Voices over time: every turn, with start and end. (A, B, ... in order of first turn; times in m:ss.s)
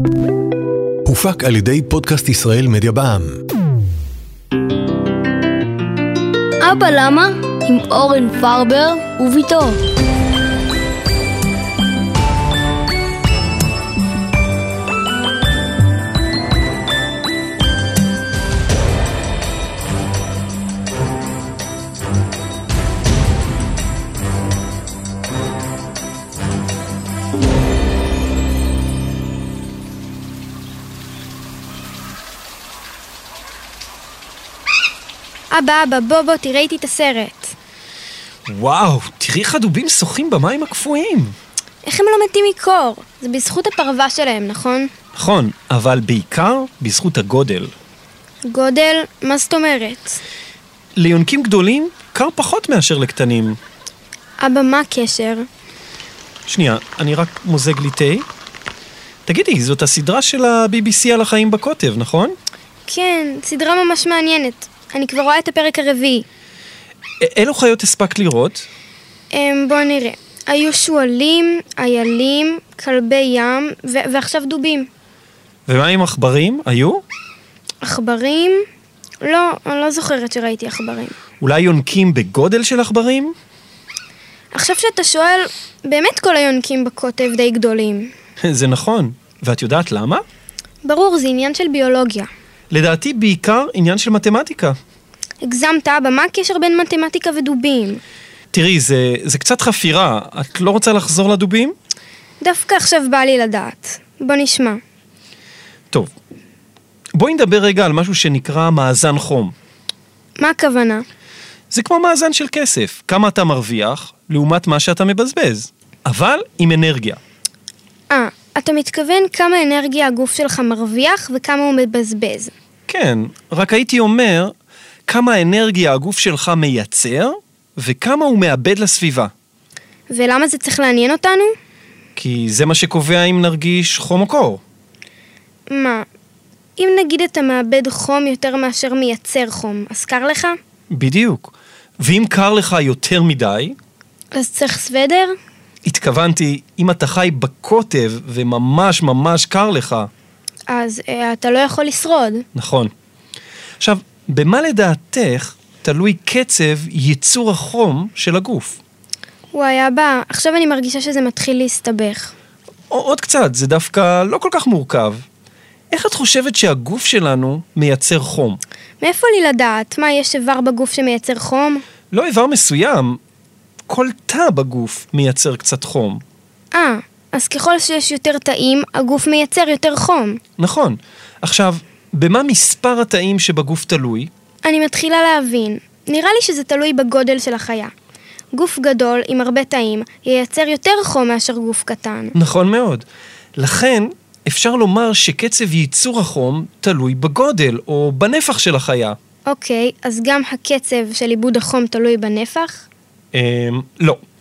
0:01.0-0:03.4 A
0:06.6-0:09.8 B
0:35.5-0:37.6 C
0:38.5-0:41.4 D
0:41.8-0:44.9 C
0:45.2-0:47.7 D
0:48.5-0:50.2 C
0:51.0-0:53.6 D
0:54.4-0:55.5 C
0:56.5-0:58.3 D
0:59.3-1:02.4 D
1:02.9-1:06.3 C
1:07.2-1:08.7 D
1:09.3-1:14.9 C
1:15.7-1:17.0 D
1:17.8-1:18.6 C
1:19.2-1:21.2 C
1:21.4-1:23.4 D
1:24.5-1:28.1 C
1:28.4-1:30.2 D
1:30.8-1:32.3 C
1:32.7-1:34.8 D
1:35.4-1:38.0 C
1:38.5-1:41.8 D
1:42.4-1:44.8 C
1:47.2-1:49.5 D
1:50.4-1:51.0 C
1:51.7-1:57.2 D
1:58.1-2:02.5 C
2:02.9-2:04.5 D
2:05.1-2:09.3 D
2:10.1-2:11.5 C
2:12.2-2:14.6 D
2:15.7-2:16.1 C
2:16.8-2:20.6 C
2:20.9-2:23.8 D
2:24.3-2:25.3 C
2:25.8-2:30.1 D
2:30.7-2:32.4 C
2:32.6-2:32.9 D
2:33.8-2:38.8 D
2:39.5-2:42.3 C
2:42.9-2:45.2 D
2:45.9-2:48.6 D
2:49.0-2:51.8 C
2:52.1-2:53.2 D
2:53.9-2:56.2 D
2:56.7-3:00.4 C
3:00.6-3:04.3 D
3:04.6-3:07.9 C
3:08.5-3:12.4 C
3:12.4-3:13.0 D
3:13.6-3:19.2 D
3:19.5-3:22.8 C
3:23.3-3:24.2 D